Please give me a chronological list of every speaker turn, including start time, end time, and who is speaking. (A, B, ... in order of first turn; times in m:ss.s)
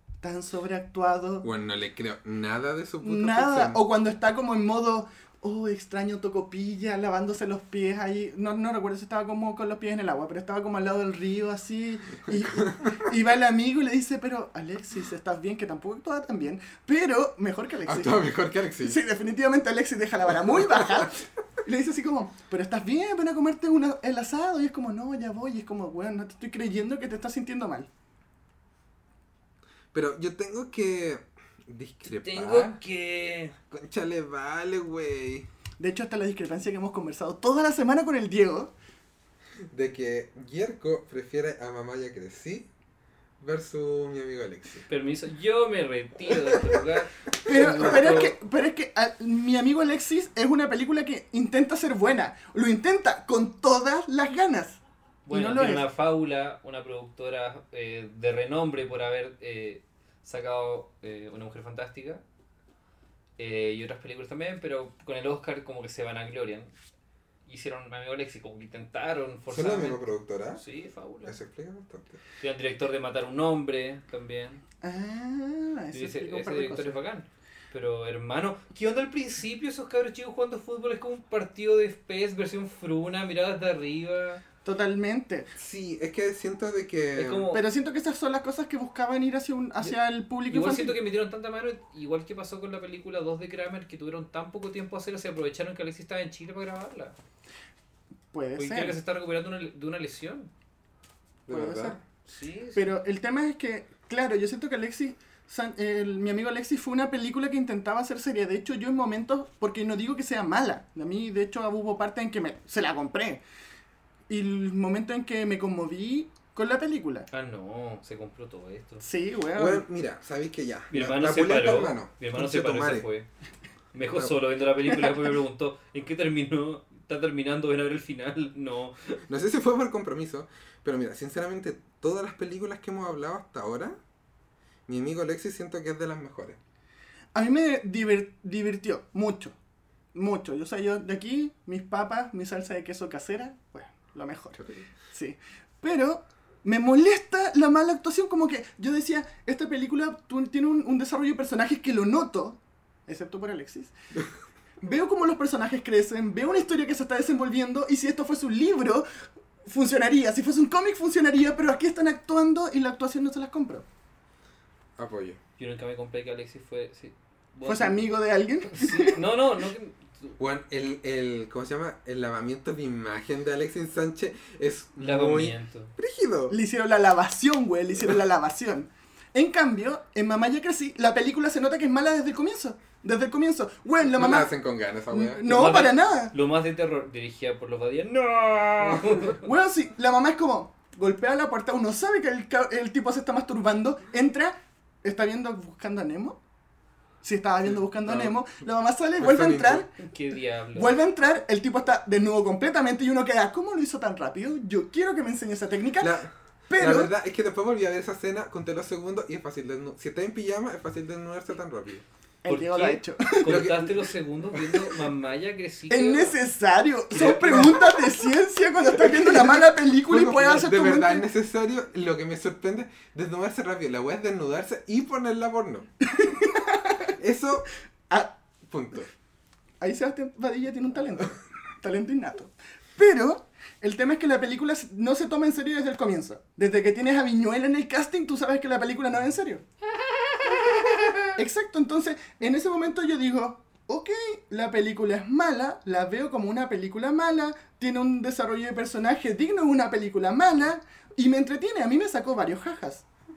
0:00.2-0:01.5 A
0:01.4-0:03.8 B
0:03.0-0:18.3 A
0:17.8-0:19.0 B
0:18.8-0:27.9 A
0:20.5-0:21.1 B
0:29.9-0:32.8 B
0:32.1-0:33.6 C
0:33.7-0:35.5 B
0:35.8-0:38.7 A
0:39.7-0:42.7 B
0:43.4-0:44.9 B
0:44.9-0:48.4 C
0:46.3-0:46.8 B
0:47.5-0:55.9 A
0:47.5-0:48.0 B
0:55.3-1:02.2 C
1:03.4-1:06.7 C
1:07.5-1:11.4 C
1:09.5-1:10.6 B
1:11.2-1:12.2 B
1:12.4-1:14.6 C
1:14.8-1:17.0 A
1:15.9-1:24.4 C
1:24.6-1:25.5 A
1:25.6-1:27.5 B
1:27.2-1:27.6 C
1:27.5-1:31.0 A
1:30.5-1:37.2 C
1:38.3-1:39.0 A
1:38.6-1:40.5 C
1:41.5-1:42.0 B
1:41.5-1:42.0 A
1:42.3-1:42.9 C
1:42.8-1:53.4 A
1:54.3-1:57.3 A
1:57.3-1:59.0 C
1:59.0-1:59.8 A
1:59.6-2:03.1 B
2:00.9-2:03.3 C
2:03.9-2:09.2 C
2:09.3-2:14.0 B
2:14.9-2:16.6 B
2:17.4-2:19.6 A
2:20.1-2:33.9 A
2:24.6-2:24.9 B
2:34.8-2:39.1 A
2:39.7-2:43.9 A
2:45.0-2:45.4 B
2:45.6-2:48.0 C
2:47.7-2:49.3 A
2:48.7-2:50.4 C
2:50.4-2:56.6 B
2:55.0-2:55.9 C
2:56.5-3:04.5 A
3:04.0-3:05.5 B
3:05.1-3:06.3 A
3:05.4-3:09.5 C
3:09.2-3:16.4 A
3:17.2-3:19.9 A
3:18.1-3:18.3 C
3:19.2-3:19.9 B
3:20.0-3:21.0 C
3:20.8-3:27.1 A
3:26.0-3:32.0 B
3:32.4-3:33.7 A
3:32.5-3:36.4 C
3:33.5-3:34.9 B
3:35.9-3:41.2 A
3:37.1-3:37.7 C
3:37.2-3:37.8 B
3:39.0-3:45.9 B
3:46.1-3:47.1 A
3:47.1-3:47.7 B
3:48.1-3:48.4 A
3:48.7-3:49.1 B
3:49.8-3:59.6 A
3:59.9-4:01.3 C
4:01.3-4:13.0 A